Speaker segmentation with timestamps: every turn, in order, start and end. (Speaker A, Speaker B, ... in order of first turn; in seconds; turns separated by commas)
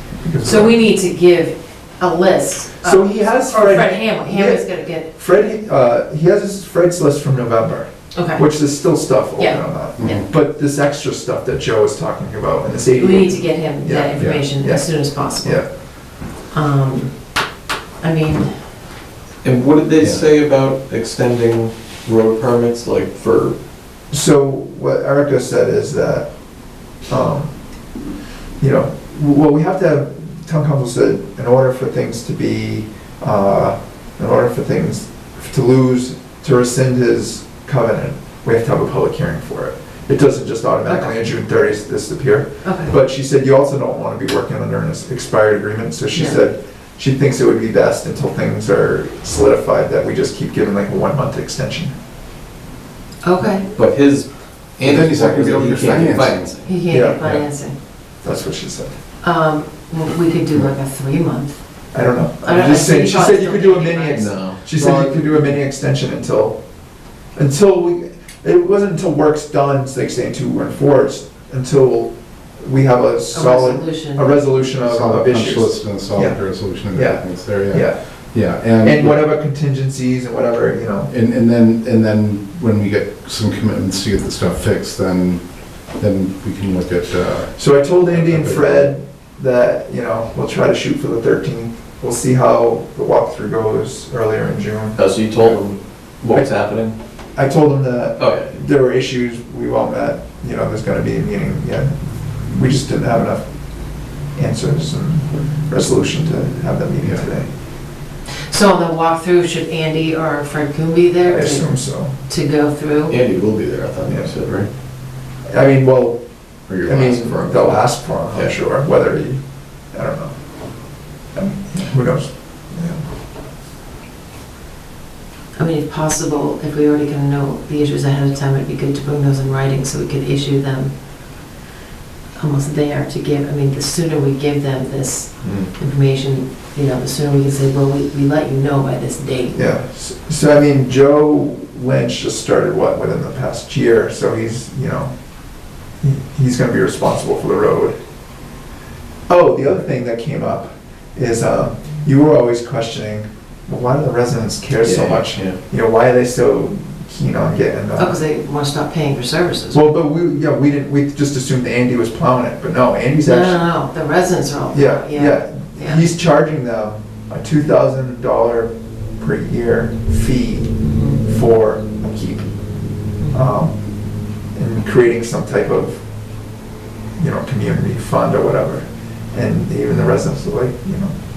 Speaker A: 0.1-0.7, Speaker B: 0.4-5.1, Speaker A: 2.8-15.7, Speaker B: 8.1-8.4, Speaker B: 9.4-10.2, Speaker C: 10.0-10.2, Speaker B: 12.9-15.7, Speaker B: 16.3-17.2, Speaker B: 18.0-18.5, Speaker D: 19.4-23.6, Speaker A: 24.1-27.6, Speaker A: 28.6-51.9, Speaker B: 40.9-41.3, Speaker B: 42.6-43.0, Speaker B: 46.1-46.4, Speaker B: 53.2-53.7, Speaker D: 53.7-56.7, Speaker C: 54.8-56.5, Speaker B: 56.6-57.8, Speaker A: 56.9-57.2, Speaker A: 58.2-59.0, Speaker B: 59.2-61.9, Speaker A: 61.9-66.6, Speaker B: 62.4-64.3, Speaker D: 64.1-64.6, Speaker C: 64.8-65.6, Speaker A: 67.3-78.0, Speaker B: 73.3-74.4, Speaker C: 74.8-79.2, Speaker A: 78.5-81.1, Speaker C: 81.1-88.9, Speaker A: 87.5-95.6, Speaker D: 95.0-97.0, Speaker A: 97.3-103.5, Speaker D: 98.2-98.5, Speaker A: 104.3-107.5, Speaker B: 108.5-113.2, Speaker A: 111.2-112.1, Speaker D: 113.1-114.7, Speaker A: 115.5-116.2, Speaker D: 116.7-118.5, Speaker A: 116.8-120.4, Speaker A: 121.2-123.0, Speaker B: 125.6-130.9, Speaker B: 132.3-139.6, Speaker D: 135.4-135.7, Speaker A: 139.5-145.1, Speaker A: 146.0-148.0, Speaker A: 149.3-158.2, Speaker D: 154.8-155.6, Speaker B: 158.0-159.8, Speaker A: 159.7-163.6, Speaker B: 163.2-166.0, Speaker A: 164.7-172.5, Speaker B: 170.8-171.2, Speaker A: 173.3-173.8, Speaker A: 174.5-176.0, Speaker A: 177.2-181.2